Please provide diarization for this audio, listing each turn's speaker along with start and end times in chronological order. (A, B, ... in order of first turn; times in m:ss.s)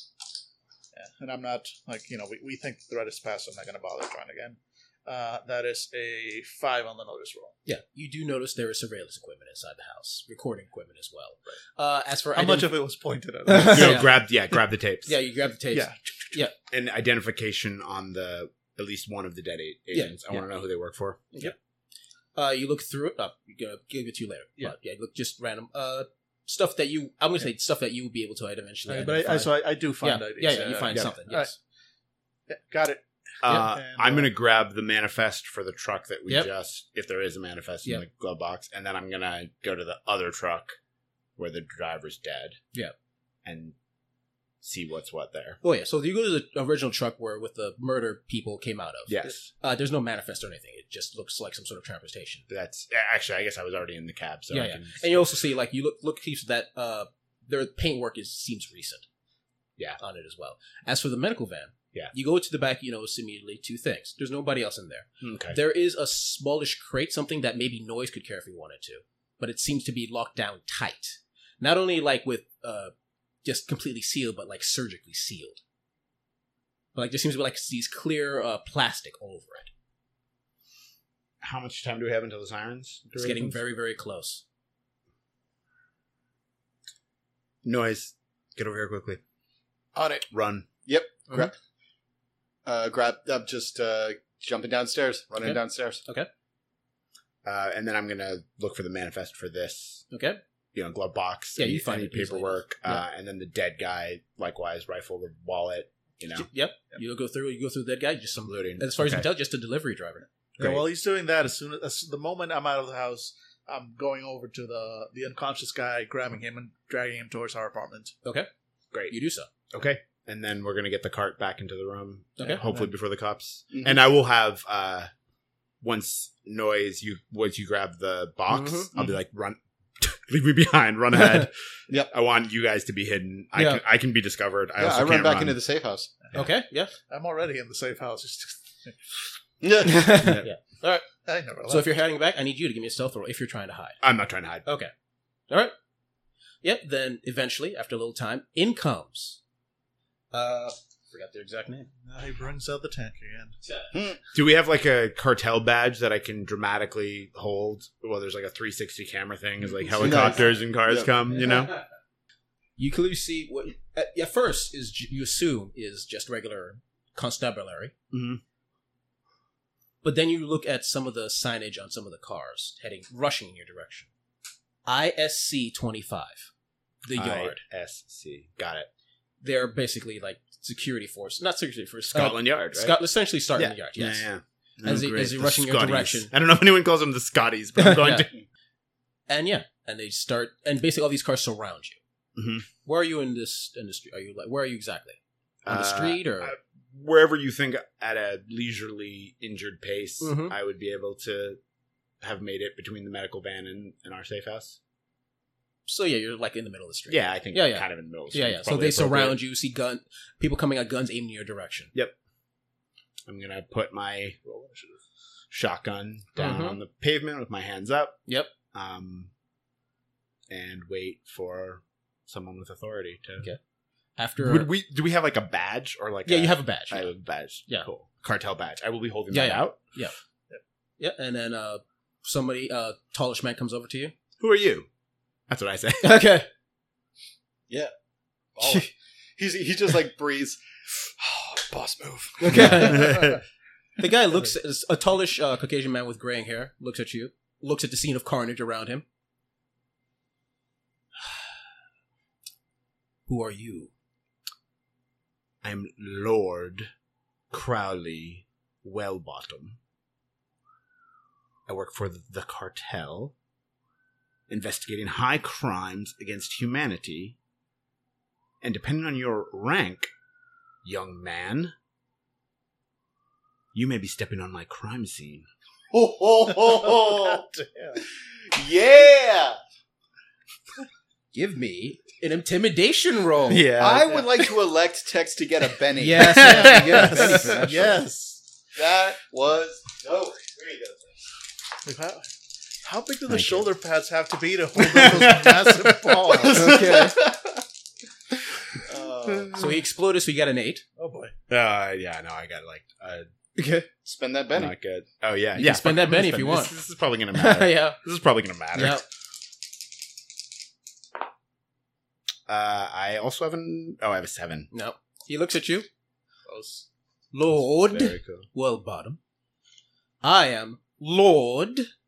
0:00.9-0:07.6 A
0:07.7-0:12.7 B
0:12.3-0:14.1 A
0:13.5-0:14.2 B
0:13.6-0:15.1 C
0:15.1-0:16.5 B
0:15.7-0:16.4 A
0:16.7-0:21.3 C
0:19.9-0:20.4 B
0:22.4-0:31.6 B
0:28.9-0:31.5 A
0:32.5-0:34.3 A
0:33.4-0:40.8 C
0:41.4-0:42.6 C
0:43.4-0:43.8 C
0:44.6-0:45.6 C
0:45.6-0:52.5 B
0:49.1-0:49.5 C
0:52.5-0:55.3 C
0:54.5-0:59.0 B
1:00.0-1:12.9 B
1:05.2-1:05.6 C
1:13.4-1:15.6 B
1:17.0-1:19.7 B
1:21.4-1:23.6 C
1:23.2-1:24.4 B
1:27.6-1:29.2 C
1:30.0-1:30.3 D
1:30.3-1:30.7 C
1:30.9-1:31.5 D
1:32.7-1:36.0 D
1:35.4-1:36.3 B
1:37.4-1:40.1 C
1:40.1-1:40.4 B
1:40.7-1:46.5 C
1:41.6-1:43.0 B
1:46.4-1:50.2 B
1:48.5-1:49.3 C
1:50.6-1:58.2 A
1:50.6-1:50.9 C
1:59.1-1:59.5 B
1:59.7-2:05.1 C
2:02.4-2:02.6 B
2:02.5-2:02.9 A
2:03.7-2:04.0 D
2:05.8-2:15.6 C
2:08.5-2:08.9 B
2:13.6-2:13.8 B
2:14.8-2:16.1 D
2:16.3-2:16.9 B
2:17.1-2:19.1 A
2:19.6-2:20.4 D
2:19.8-2:21.1 B
2:20.2-2:20.5 C
2:21.3-2:21.9 A
2:21.7-2:24.0 B
2:24.0-2:24.7 C
2:24.6-2:24.9 B
2:25.5-2:25.8 B
2:26.6-2:29.4 B
2:30.3-2:31.9 B
2:32.1-2:33.6 A
2:33.9-2:34.2 D
2:34.3-2:41.8 C
2:40.0-2:40.4 B
2:40.0-2:41.1 D
2:42.8-2:47.9 B
2:48.1-2:48.4 C
2:50.0-2:54.1 B
2:54.9-2:56.5 B
2:57.0-2:57.6 B
2:57.2-2:58.9 C
2:59.4-3:04.3 B
3:02.1-3:03.0 C
3:03.6-3:08.3 C
3:04.8-3:06.3 B
3:07.8-3:08.3 B
3:09.3-3:12.0 B
3:12.4-3:12.7 C
3:12.8-3:16.6 B
3:15.6-3:21.6 C
3:20.2-3:20.6 B
3:22.2-3:24.8 C
3:25.9-3:31.9 B
3:27.1-3:29.4 C
3:33.3-3:34.4 C
3:34.4-3:35.0 A
3:35.5-3:39.3 C
3:36.4-3:36.8 B
3:40.5-3:43.5 C
3:44.2-3:44.7 B
3:44.4-3:49.8 C
3:46.3-3:47.1 B
3:49.3-3:50.2 B
3:51.0-3:54.1 B
3:54.4-3:54.9 C
3:55.5-3:56.3 C
3:56.0-3:56.5 B
3:58.6-4:03.2 D
4:02.4-4:03.4 B
4:02.5-4:03.4 C
4:04.0-4:09.0 B
4:13.3-4:13.9 B
4:15.6-4:16.9 C
4:17.5-4:19.8 C
4:21.7-4:23.3 C
4:24.5-4:27.4 C
4:28.6-4:30.1 C
4:30.8-4:31.7 C
4:33.7-4:35.5 C
4:35.9-4:37.4 D
4:36.8-4:38.0 A
4:38.4-4:39.6 D
4:41.3-4:43.8 B
4:43.5-4:44.2 C
4:43.8-4:46.6 D
4:46.0-4:48.0 B
4:46.2-4:47.4 C
4:46.2-4:48.4 A
4:48.8-4:51.2 D
4:51.8-4:52.3 A
4:52.8-4:56.9 A
4:53.3-4:53.7 C
4:54.8-4:56.4 C
4:56.4-4:57.6 D
4:56.5-4:57.2 B
4:58.8-4:59.6 D
4:59.5-5:00.8 B
5:01.0-5:01.3 A
5:01.5-5:03.3 C
5:03.6-5:03.9 B
5:04.0-5:04.7 D
5:04.5-5:09.0 C
5:05.6-5:06.8 B
5:07.3-5:08.0 B
5:08.7-5:09.0 B
5:12.5-5:14.7 C
5:14.7-5:15.9 B
5:16.5-5:16.9 A
5:17.3-5:19.2 B
5:17.8-5:18.5 C
5:20.2-5:21.9 B